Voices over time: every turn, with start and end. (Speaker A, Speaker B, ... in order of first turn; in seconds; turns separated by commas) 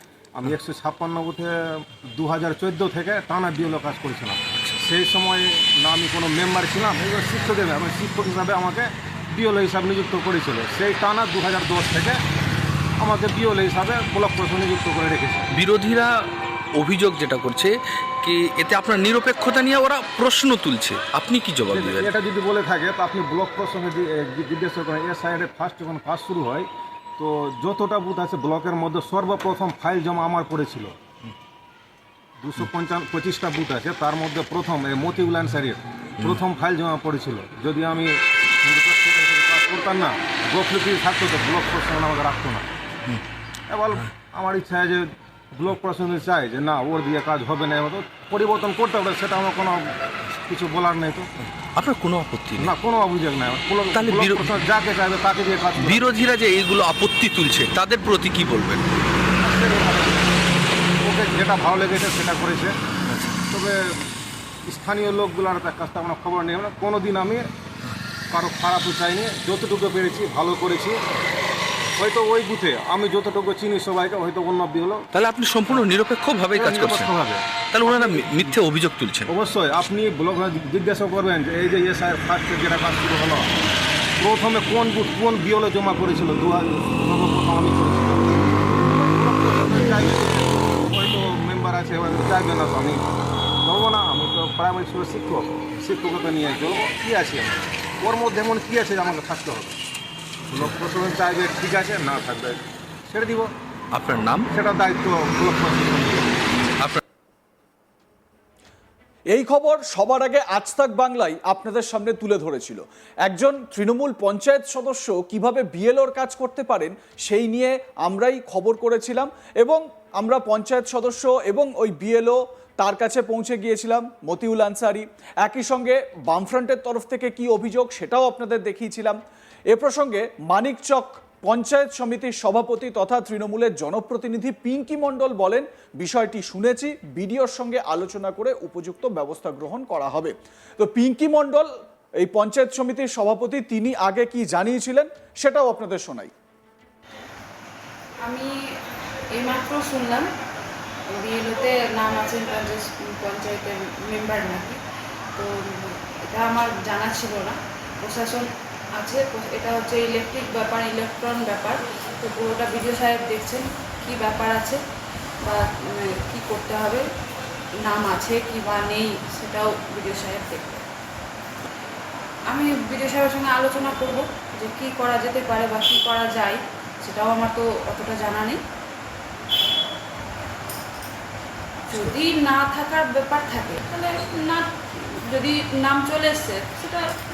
Speaker A: 0.4-12.2, Speaker A: 13.0-15.5, Speaker B: 15.5-22.1, Speaker A: 21.7-30.9, Speaker A: 32.4-42.7, Speaker A: 43.7-51.3, Speaker B: 51.8-52.7, Speaker A: 52.6-56.0, Speaker B: 53.9-54.7, Speaker B: 55.8-59.0, Speaker A: 59.4-60.3, Speaker A: 61.0-62.7, Speaker B: 63.1-63.4, Speaker A: 63.5-64.1, Speaker A: 64.7-67.4, Speaker A: 68.3-71.0, Speaker A: 72.0-75.0, Speaker B: 75.1-77.2, Speaker A: 76.5-78.6, Speaker B: 77.7-79.3, Speaker A: 79.3-83.5, Speaker A: 84.2-99.8, Speaker A: 100.5-103.5, Speaker B: 104.0-104.5, Speaker A: 104.5-106.4, Speaker C: 109.3-129.2, Speaker C: 129.7-146.3, Speaker D: 148.2-148.6, Speaker D: 149.3-150.3, Speaker D: 151.1-154.8, Speaker D: 155.4-164.8, Speaker D: 165.4-167.1, Speaker D: 167.8-170.8, Speaker D: 172.5-178.6, Speaker D: 181.9-187.1